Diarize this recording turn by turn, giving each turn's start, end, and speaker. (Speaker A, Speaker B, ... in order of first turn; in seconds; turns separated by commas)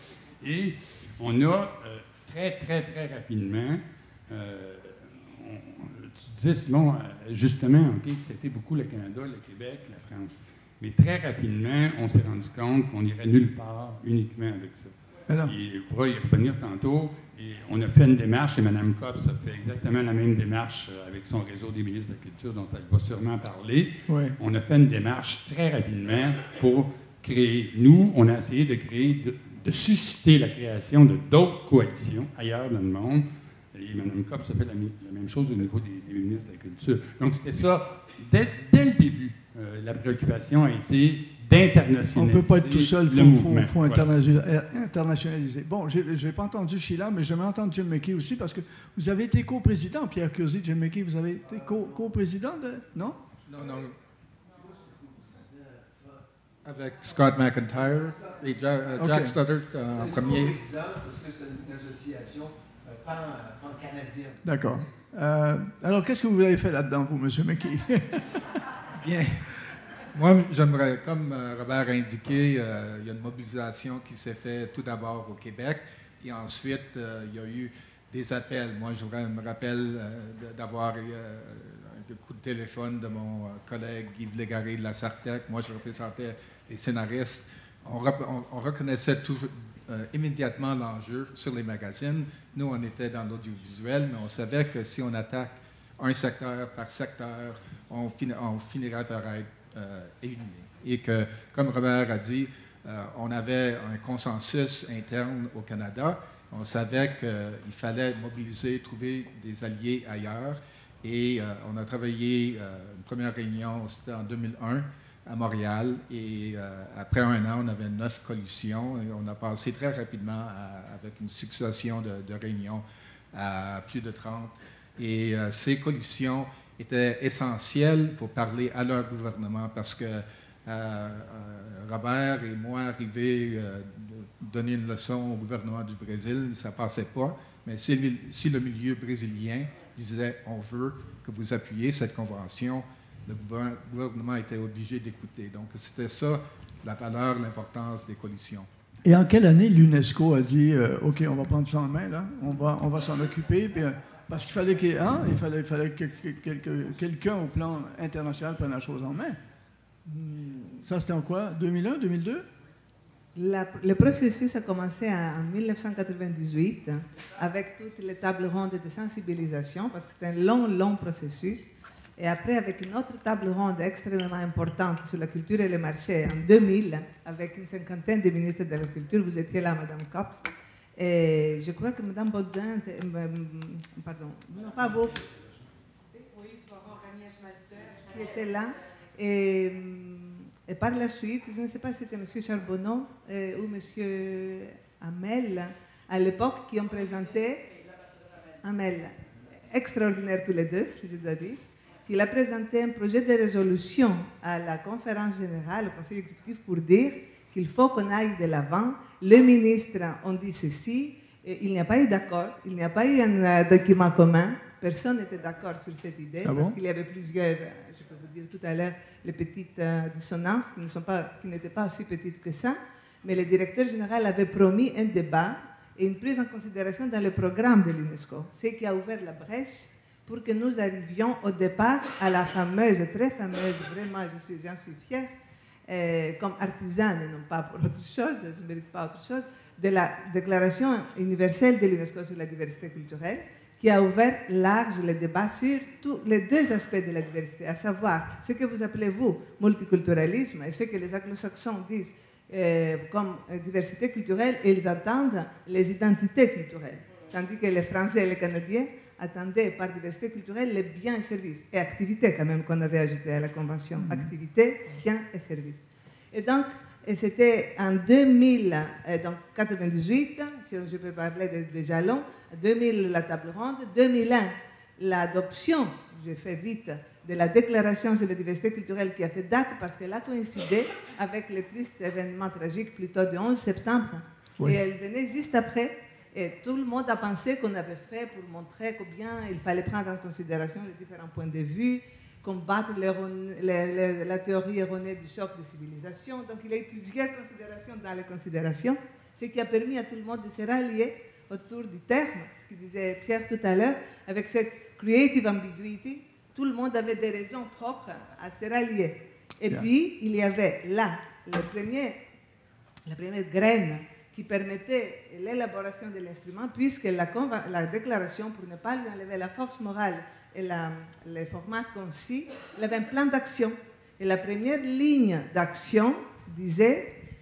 Speaker A: 0.4-44.4, Speaker B: 15.3-15.5, Speaker B: 24.1-24.3, Speaker B: 42.1-53.2, Speaker C: 53.5-53.9, Speaker C: 56.6-60.6, Speaker B: 59.0-59.3, Speaker D: 60.0-64.4, Speaker B: 64.4-68.4, Speaker C: 69.0-69.4, Speaker C: 70.1-148.7, Speaker B: 149.0-159.4, Speaker E: 160.1-160.8, Speaker B: 160.8-162.4, Speaker E: 163.3-180.4, Speaker E: 181.0-185.2, Speaker E: 188.0-197.7, Speaker E: 198.6-235.3, Speaker B: 216.4-216.8, Speaker E: 235.9-312.2, Speaker B: 263.9-264.3, Speaker E: 313.1-327.1